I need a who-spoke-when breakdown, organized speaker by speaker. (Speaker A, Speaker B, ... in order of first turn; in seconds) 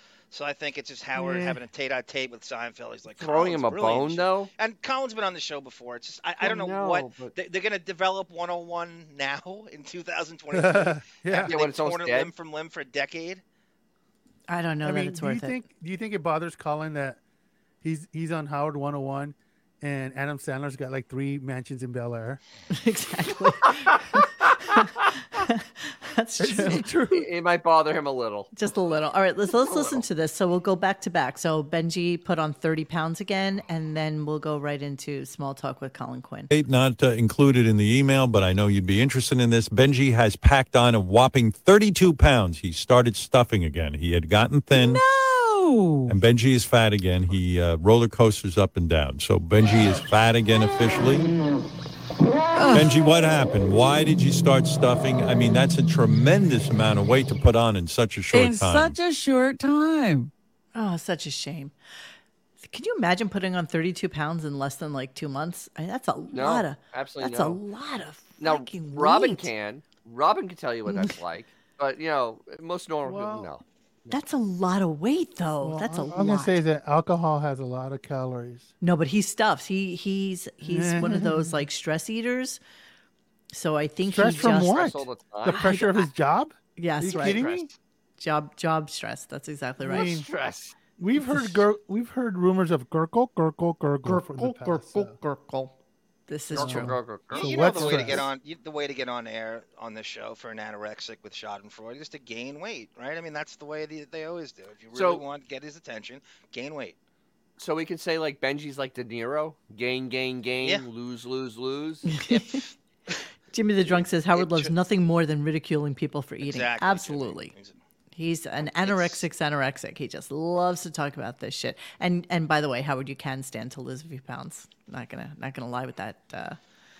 Speaker A: 0.3-13.4, 97.3-107.0, 112.2-112.7, 113.9-114.7, 116.4-117.8, 118.8-119.2
Speaker B: 3.1-4.5, 6.4-7.3, 11.4-12.3, 23.9-24.5, 26.6-28.5, 29.6-30.0, 66.3-67.6, 68.4-74.2, 84.5-85.7, 87.1-87.7, 89.8-90.7, 96.5-98.2, 104.9-105.2, 107.6-112.1
Speaker C: 10.5-11.5, 14.8-17.2, 17.8-22.4, 26.4-27.3, 73.0-73.5, 75.6-78.7, 80.6-81.6, 84.1-87.7, 89.8-90.3, 91.0-95.1, 96.5-98.3
Speaker D: 14.5-15.6, 22.7-26.9, 28.5-36.5, 60.7-61.7, 62.6-69.5, 70.9-71.2, 74.1-76.6, 78.8-82.6, 83.5-84.9, 85.5-86.1, 86.8-87.4, 88.2-90.1, 94.0-95.7, 96.3-96.9, 112.1-112.6, 113.5-117.5, 118.1-126.6
Speaker E: 36.5-45.0, 46.1-51.3, 52.7-58.9
Speaker F: 44.7-46.1, 52.5-53.0, 58.3-60.3